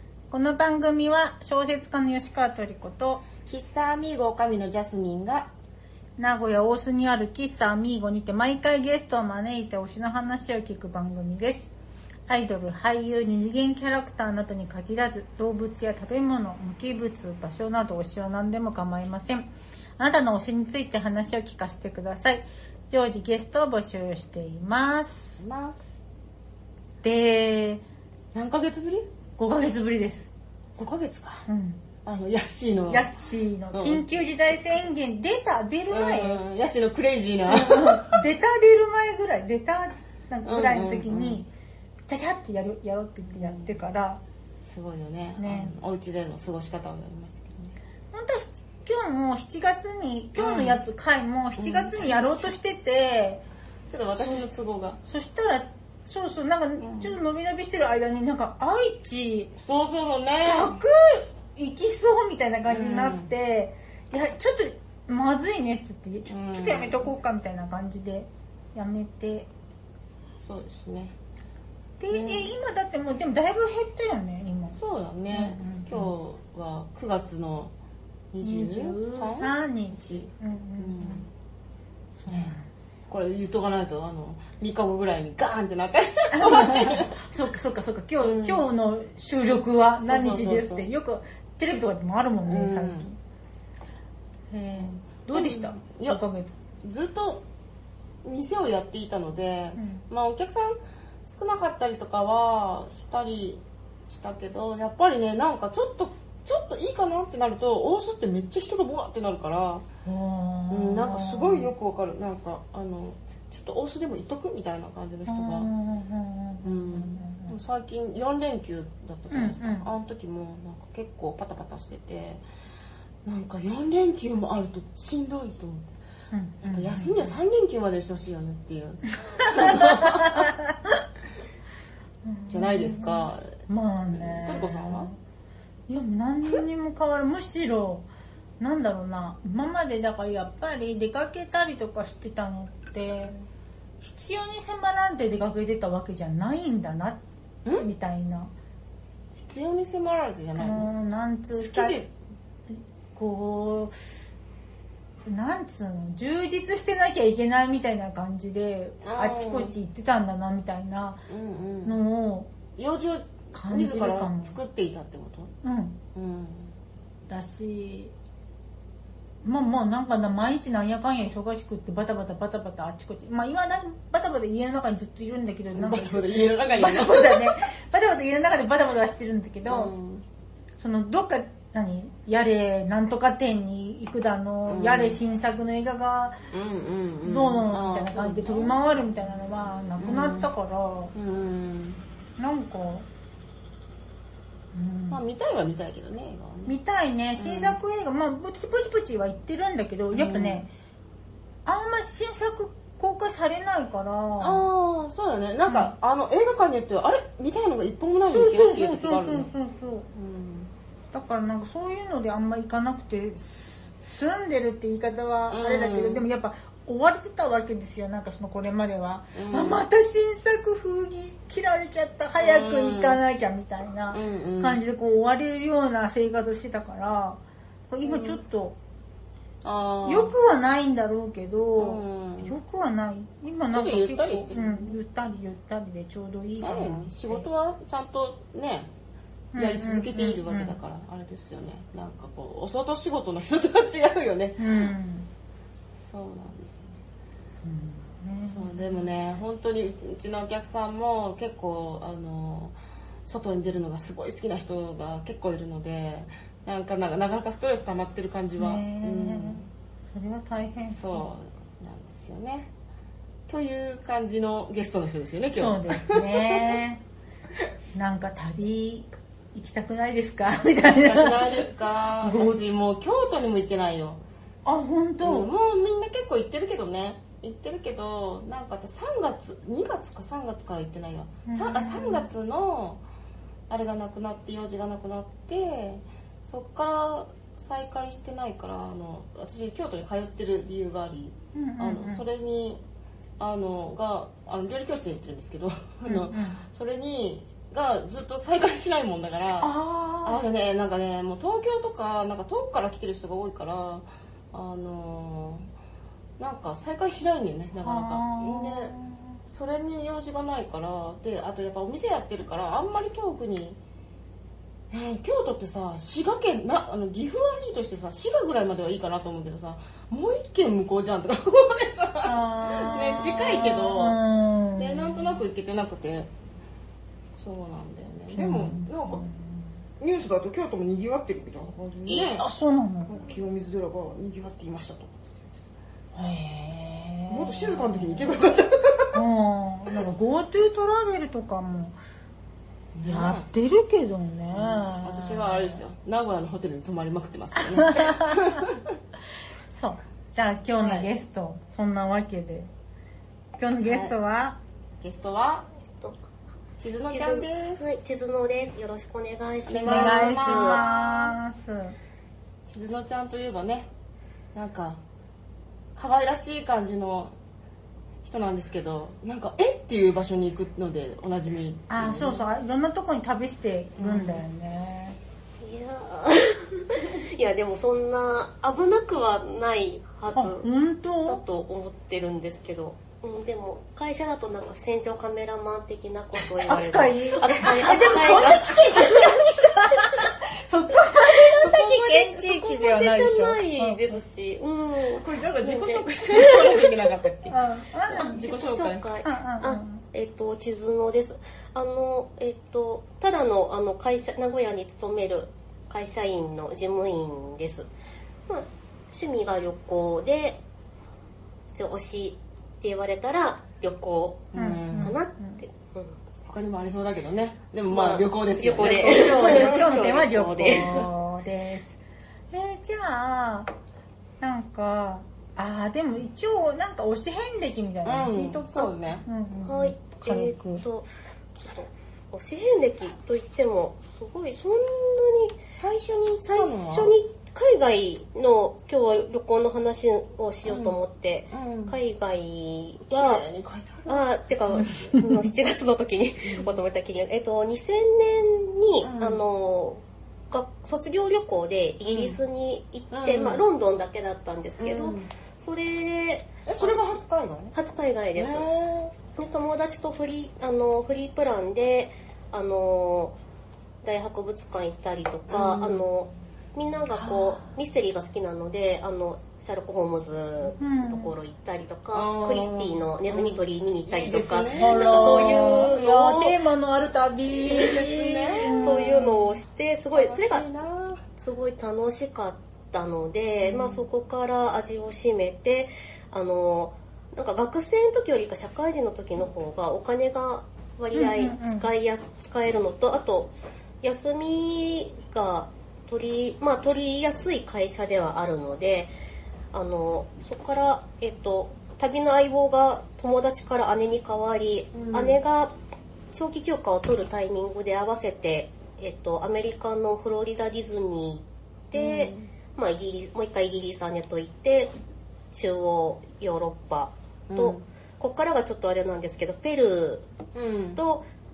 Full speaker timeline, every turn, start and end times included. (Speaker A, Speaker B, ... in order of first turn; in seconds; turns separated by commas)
Speaker A: 0.3-3.3, Speaker B: 3.5-5.5, Speaker A: 6.2-11.7, Speaker A: 12.3-25.4, Speaker B: 25.4-26.0, Speaker A: 27.0-27.8, Speaker B: 28.3-29.1, Speaker A: 29.4-30.3, Speaker B: 30.8-31.5, Speaker A: 31.5-31.8, Speaker B: 32.0-33.1, Speaker A: 32.9-36.4, Speaker B: 33.7-34.0, Speaker B: 35.9-38.2, Speaker A: 37.5-41.5, Speaker B: 40.5-41.5, Speaker A: 42.1-44.2, Speaker B: 43.3-43.8, Speaker B: 44.6-47.8, Speaker A: 45.4-45.7, Speaker A: 48.1-53.4, Speaker B: 50.4-50.8, Speaker B: 51.6-52.5, Speaker B: 53.9-55.0, Speaker A: 54.2-54.5, Speaker A: 55.0-59.5, Speaker B: 56.8-57.2, Speaker B: 59.6-60.8, Speaker A: 60.4-69.5, Speaker B: 62.7-63.3, Speaker B: 66.3-67.1, Speaker B: 70.4-71.2, Speaker A: 72.0-74.8, Speaker B: 72.1-72.5, Speaker B: 74.7-77.7, Speaker A: 75.3-76.1, Speaker B: 78.3-81.3, Speaker A: 78.4-81.2, Speaker A: 82.2-82.7, Speaker B: 82.3-82.5, Speaker B: 83.1-87.1, Speaker A: 86.3-93.2, Speaker B: 88.2-88.7, Speaker B: 90.0-90.9, Speaker B: 92.5-93.1, Speaker A: 94.5-96.6, Speaker B: 94.8-96.2, Speaker B: 96.8-97.5, Speaker B: 98.2-109.9, Speaker A: 99.8-100.0, Speaker A: 110.0-111.7, Speaker B: 110.7-115.7, Speaker A: 115.3-117.6, Speaker B: 116.6-122.4, Speaker A: 119.3-119.9, Speaker B: 123.2-125.9, Speaker A: 126.3-127.3, Speaker B: 126.6-130.5, Speaker A: 129.4-131.0, Speaker A: 132.2-135.2, Speaker B: 132.5-133.5, Speaker B: 134.1-135.1, Speaker A: 135.9-138.1, Speaker A: 138.6-143.3, Speaker A: 144.0-147.2, Speaker A: 147.7-148.5, Speaker B: 149.4-150.9, Speaker A: 150.6-152.0, Speaker B: 151.5-152.1, Speaker A: 152.7-154.0, Speaker A: 155.3-161.2, Speaker B: 159.0-159.8, Speaker B: 161.3-162.0, Speaker A: 161.8-162.5, Speaker B: 162.8-165.5, Speaker A: 163.5-164.6, Speaker A: 165.6-166.0, Speaker B: 166.2-166.7, Speaker A: 167.3-168.1, Speaker A: 169.4-179.9, Speaker B: 175.7-177.6, Speaker B: 179.7-180.2, Speaker A: 180.8-186.4, Speaker B: 184.7-185.2, Speaker B: 186.5-188.8, Speaker A: 187.2-191.1, Speaker B: 190.0-190.5, Speaker B: 191.1-192.0, Speaker A: 192.4-193.1, Speaker A: 194.7-195.2, Speaker B: 195.1-196.8, Speaker A: 196.7-200.7, Speaker B: 197.4-197.8, Speaker B: 200.1-200.7, Speaker A: 201.7-204.7, Speaker B: 204.4-209.5, Speaker A: 205.7-205.9, Speaker A: 208.3-210.1, Speaker B: 210.1-210.7, Speaker A: 211.1-228.8, Speaker B: 215.5-216.3, Speaker B: 219.3-219.8, Speaker B: 222.4-223.2, Speaker B: 224.1-224.8, Speaker B: 228.0-228.4, Speaker B: 229.6-230.3, Speaker A: 230.0-237.5, Speaker B: 231.8-232.6, Speaker B: 233.7-235.0, Speaker B: 236.6-238.9, Speaker A: 239.5-240.8, Speaker B: 239.6-244.9, Speaker A: 244.6-245.3, Speaker B: 246.0-247.0, Speaker A: 247.6-249.1, Speaker B: 248.4-259.7, Speaker A: 258.6-261.2, Speaker B: 260.8-262.7, Speaker B: 263.5-266.8, Speaker A: 265.5-267.0, Speaker A: 267.9-271.7, Speaker B: 270.8-274.2, Speaker A: 272.2-272.6, Speaker A: 274.6-275.5, Speaker B: 275.2-283.0, Speaker A: 281.5-282.3, Speaker B: 283.7-292.8, Speaker A: 291.5-292.2, Speaker B: 293.4-299.7, Speaker A: 296.1-296.6, Speaker A: 299.6-300.4, Speaker B: 300.2-305.7, Speaker B: 306.4-308.9, Speaker A: 307.8-309.4, Speaker B: 309.5-313.8, Speaker B: 314.9-324.2, Speaker A: 322.2-325.4, Speaker B: 324.8-326.3, Speaker B: 327.3-329.2, Speaker A: 328.3-329.7, Speaker B: 330.0-332.4, Speaker A: 332.1-333.2, Speaker B: 333.1-335.6, Speaker A: 336.1-338.4, Speaker B: 337.3-339.2, Speaker A: 339.1-342.0, Speaker B: 342.9-343.5, Speaker A: 343.0-345.8, Speaker B: 344.5-348.9, Speaker A: 347.6-348.6, Speaker A: 349.7-352.7, Speaker B: 350.8-351.1, Speaker A: 353.6-354.6, Speaker B: 353.9-354.1, Speaker B: 355.0-355.7, Speaker B: 356.8-357.8, Speaker C: 357.1-361.2, Speaker B: 359.7-360.9, Speaker A: 359.8-361.9, Speaker B: 362.7-363.9, Speaker B: 364.5-365.0, Speaker B: 365.9-367.4, Speaker B: 368.2-372.5, Speaker A: 371.9-375.2, Speaker B: 374.0-374.4, Speaker C: 375.6-380.7, Speaker A: 380.3-381.4, Speaker C: 381.2-390.2, Speaker A: 386.6-394.2, Speaker B: 387.7-389.1, Speaker C: 390.9-397.0, Speaker B: 395.1-397.6, Speaker A: 397.5-398.4, Speaker B: 398.1-399.1, Speaker C: 398.1-407.9, Speaker A: 399.2-400.0, Speaker C: 408.5-410.6, Speaker C: 411.7-416.2, Speaker B: 414.5-415.2, Speaker A: 414.6-415.6, Speaker B: 416.5-421.1, Speaker C: 417.9-421.0, Speaker A: 418.8-422.0, Speaker A: 422.5-423.7, Speaker A: 424.4-430.8, Speaker B: 428.0-429.2, Speaker C: 429.6-431.1, Speaker C: 431.6-435.6, Speaker B: 435.7-437.1, Speaker C: 436.4-443.5, Speaker B: 440.7-441.0, Speaker B: 441.5-442.0, Speaker B: 443.1-444.2, Speaker C: 444.1-457.1, Speaker A: 444.9-445.4, Speaker B: 446.4-446.8, Speaker B: 449.0-449.4, Speaker B: 452.1-452.4, Speaker B: 453.1-453.7, Speaker B: 454.8-455.3, Speaker B: 456.7-457.8, Speaker C: 457.7-458.7, Speaker B: 458.4-459.1, Speaker C: 459.3-463.4, Speaker C: 464.0-476.6, Speaker B: 465.5-466.1, Speaker B: 467.1-467.6, Speaker A: 470.8-471.3, Speaker B: 472.1-475.9, Speaker A: 474.7-479.3, Speaker B: 477.6-479.4, Speaker C: 478.7-480.6, Speaker B: 480.1-481.2, Speaker C: 481.4-493.5, Speaker B: 483.7-483.9, Speaker A: 491.1-491.9, Speaker C: 494.0-499.1, Speaker C: 499.7-505.8, Speaker B: 504.9-505.4, Speaker C: 506.3-514.9, Speaker B: 511.9-512.5, Speaker C: 515.5-520.3, Speaker B: 517.5-517.8, Speaker B: 520.5-521.0, Speaker C: 521.0-521.3